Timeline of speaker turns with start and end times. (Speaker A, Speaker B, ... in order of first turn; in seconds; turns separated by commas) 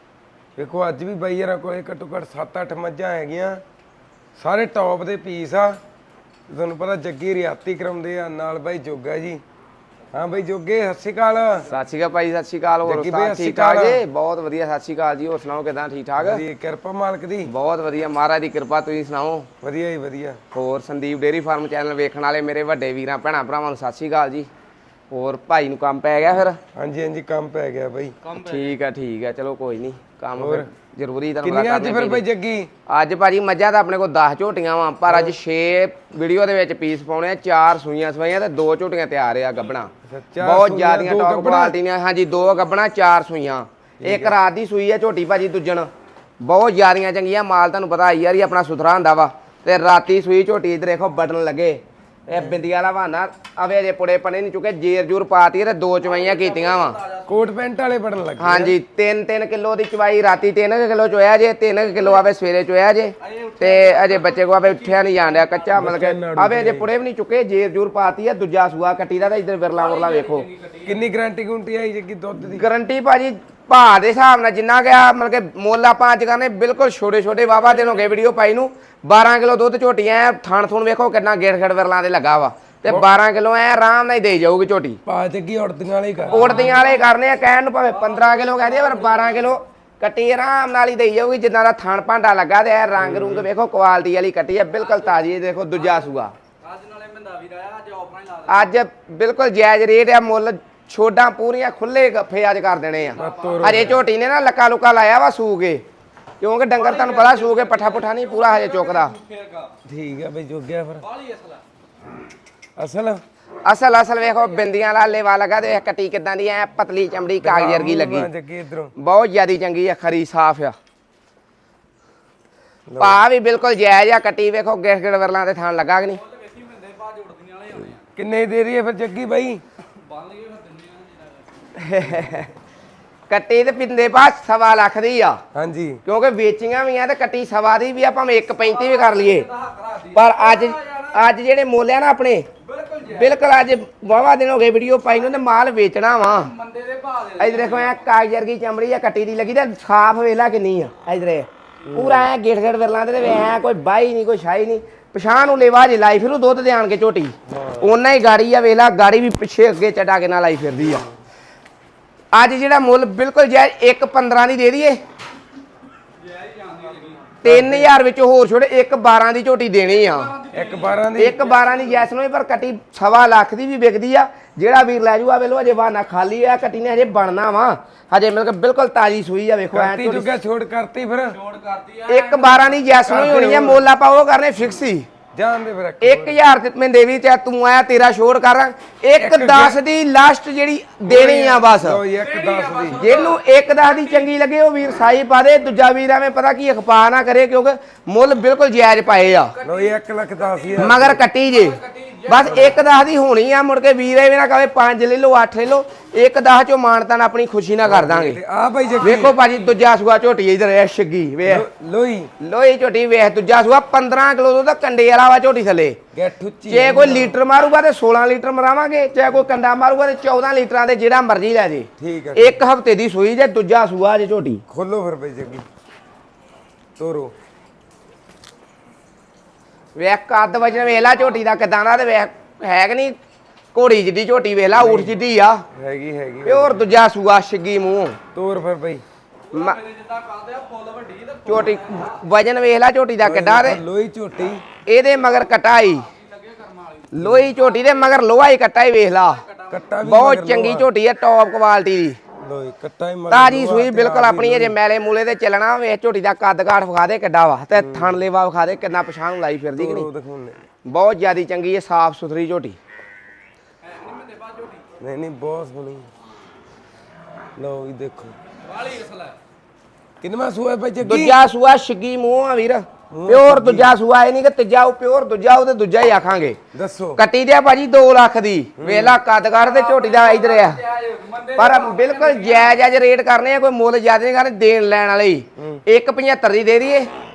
Speaker A: 0.6-3.6, Speaker A: 4.4-5.8, Speaker A: 6.5-9.4, Speaker A: 10.1-11.7, Speaker B: 11.7-16.4, Speaker A: 12.8-14.0, Speaker A: 16.2-17.5, Speaker B: 17.4-19.5, Speaker A: 19.6-20.4, Speaker B: 20.5-24.5, Speaker B: 25.1-26.6, Speaker A: 26.7-28.2, Speaker C: 28.2-28.8, Speaker B: 28.4-32.2, Speaker A: 30.4-30.7, Speaker A: 31.4-32.7, Speaker B: 32.9-45.9, Speaker A: 35.1-35.3, Speaker A: 40.1-41.8, Speaker A: 44.0-44.4, Speaker B: 46.4-57.0, Speaker C: 56.0-57.5, Speaker A: 57.2-58.7, Speaker B: 58.4-70.5, Speaker C: 63.2-65.7, Speaker A: 65.7-66.9, Speaker C: 69.8-71.0, Speaker A: 70.8-72.6, Speaker B: 72.5-85.0, Speaker C: 77.7-78.1, Speaker A: 85.0-86.7, Speaker C: 86.3-87.1, Speaker B: 86.3-96.3, Speaker C: 87.8-89.6, Speaker A: 93.0-93.5, Speaker C: 94.8-95.2, Speaker C: 95.7-98.7, Speaker B: 98.5-105.8, Speaker C: 103.1-104.0, Speaker A: 103.2-104.0, Speaker B: 106.4-109.1, Speaker C: 106.8-109.7, Speaker A: 109.8-111.0, Speaker C: 111.0-111.6, Speaker A: 112.8-113.2, Speaker B: 113.6-118.3, Speaker C: 114.2-114.9, Speaker A: 117.4-118.9, Speaker B: 119.0-120.8, Speaker A: 122.9-123.2, Speaker B: 123.0-126.2, Speaker C: 126.2-128.0, Speaker A: 128.2-129.6, Speaker C: 129.9-131.6, Speaker B: 131.7-132.5, Speaker B: 133.3-135.4, Speaker A: 135.5-136.0, Speaker B: 136.0-139.5, Speaker C: 138.6-141.2, Speaker B: 140.1-142.5, Speaker C: 142.6-143.4, Speaker B: 143.1-146.5, Speaker C: 146.2-148.1, Speaker B: 147.4-161.1, Speaker A: 151.9-152.3, Speaker A: 157.5-157.9, Speaker B: 162.3-165.0, Speaker C: 166.2-167.3, Speaker B: 167.4-170.3, Speaker A: 167.4-167.9, Speaker C: 169.9-172.1, Speaker A: 170.5-171.4, Speaker B: 171.2-180.3, Speaker A: 179.7-181.4, Speaker C: 181.3-182.9, Speaker B: 182.1-185.1, Speaker A: 183.0-183.8, Speaker A: 185.3-186.4, Speaker B: 186.0-192.0, Speaker A: 189.2-189.8, Speaker A: 191.0-193.2, Speaker C: 192.1-194.3, Speaker B: 192.9-199.6, Speaker C: 199.5-202.8, Speaker A: 199.6-201.2, Speaker B: 200.8-208.4, Speaker A: 202.4-202.8, Speaker A: 207.8-209.3, Speaker C: 208.9-209.7, Speaker B: 209.0-211.7, Speaker A: 211.4-212.3, Speaker B: 212.4-216.0, Speaker A: 216.1-217.4, Speaker B: 216.7-224.6, Speaker A: 222.0-222.6, Speaker A: 224.7-225.7, Speaker A: 227.0-227.3, Speaker B: 229.9-233.2, Speaker B: 233.7-235.6, Speaker A: 234.7-235.1, Speaker A: 235.7-236.9, Speaker B: 236.4-238.2, Speaker A: 238.3-239.0, Speaker C: 239.5-242.2, Speaker B: 239.5-239.8, Speaker B: 241.5-243.8, Speaker A: 243.2-244.6, Speaker B: 244.8-246.1, Speaker C: 245.9-248.2, Speaker B: 247.1-249.4, Speaker A: 247.2-247.5, Speaker C: 249.2-249.9, Speaker A: 249.7-250.9, Speaker B: 250.0-252.2, Speaker A: 252.4-254.8, Speaker B: 253.3-260.1, Speaker A: 257.7-258.2, Speaker A: 259.8-260.6, Speaker B: 260.8-262.8, Speaker C: 263.8-264.8, Speaker A: 265.0-266.1, Speaker A: 267.6-268.4, Speaker C: 268.6-269.4, Speaker A: 270.2-271.4, Speaker B: 271.0-276.6, Speaker A: 273.1-273.9, Speaker A: 276.7-277.2, Speaker B: 277.2-280.8, Speaker A: 278.8-279.2, Speaker C: 279.5-282.8, Speaker B: 281.6-287.1